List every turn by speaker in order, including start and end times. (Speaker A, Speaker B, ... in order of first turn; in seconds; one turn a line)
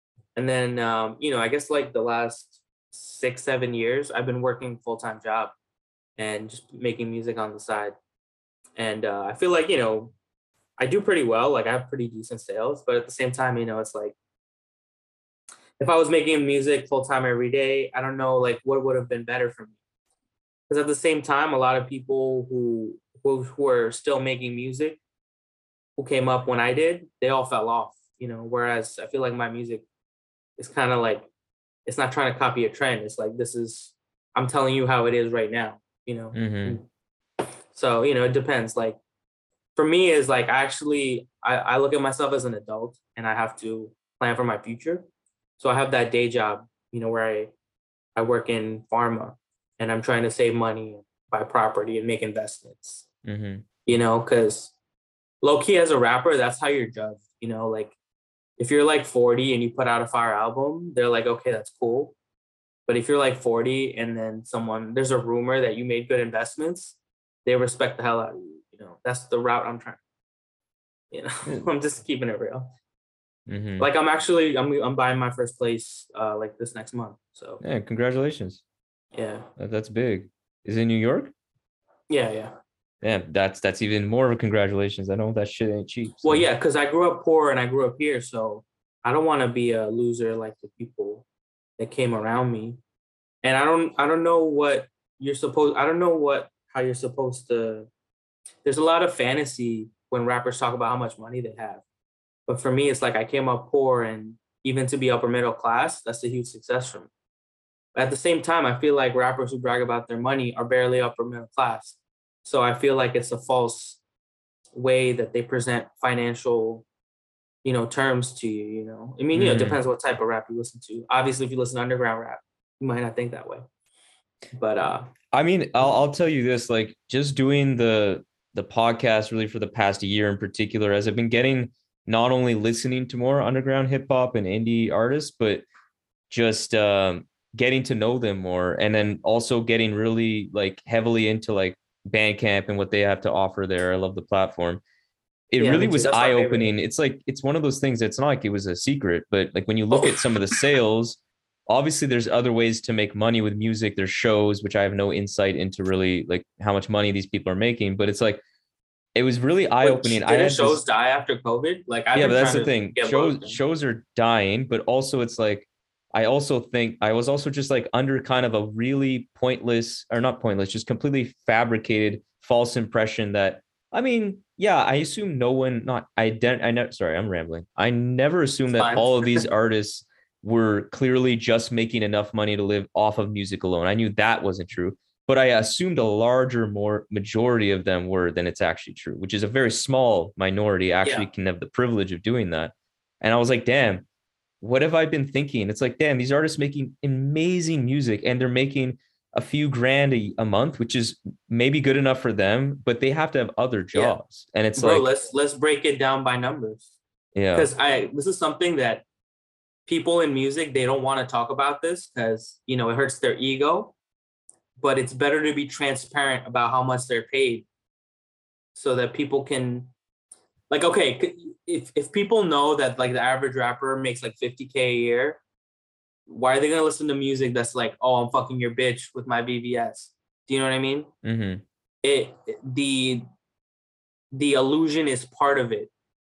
Speaker A: 0.3-5.5
Speaker A: 6.2-8.0
Speaker A: 8.8-10.1
Speaker A: 10.8-14.1
Speaker A: 15.8-19.8
Speaker A: 20.7-25.0
Speaker A: 26.0-29.8
Speaker A: 30.6-31.3
Speaker A: 31.9-36.9
Speaker B: 36.3-36.8
Speaker A: 37.7-39.0
Speaker A: 39.8-45.1
Speaker A: 45.6-47.5
Speaker A: 48.1-53.0
Speaker B: 53.2-53.6
Speaker A: 53.9-54.7
Speaker A: 55.4-57.9
Speaker A: 58.6-62.1
Speaker A: 62.9-70.0
Speaker A: 71.1-72.7
Speaker B: 73.5-73.9
Speaker A: 73.8-77.6
Speaker B: 77.6-78.6
Speaker A: 79.1-79.5
Speaker B: 79.6-81.3
Speaker A: 82.1-82.5
Speaker B: 83.0-86.4
Speaker A: 86.2-91.2
Speaker A: 91.8-92.8
Speaker A: 93.4-97.9
Speaker A: 98.6-101.8
Speaker A: 102.5-107.1
Speaker A: 107.9-114.0
Speaker A: 114.7-116.8
Speaker A: 117.6-123.6
Speaker B: 119.3-119.8
Speaker A: 124.5-125.1
Speaker B: 125.3-135.6
Speaker B: 136.3-144.8
Speaker B: 145.5-158.4
Speaker A: 145.6-146.7
Speaker B: 159.1-160.8
Speaker A: 159.8-163.6
Speaker B: 162.1-194.0
Speaker A: 178.7-179.4
Speaker A: 191.0-191.3
Speaker B: 194.6-205.1
Speaker A: 204.7-206.9
Speaker B: 207.3-207.7
Speaker A: 207.5-209.0
Speaker A: 209.9-213.9
Speaker A: 214.8-217.7
Speaker A: 218.7-219.9
Speaker A: 220.7-225.4
Speaker A: 226.3-231.1
Speaker B: 231.2-231.6
Speaker A: 232.0-233.3
Speaker A: 234.3-235.9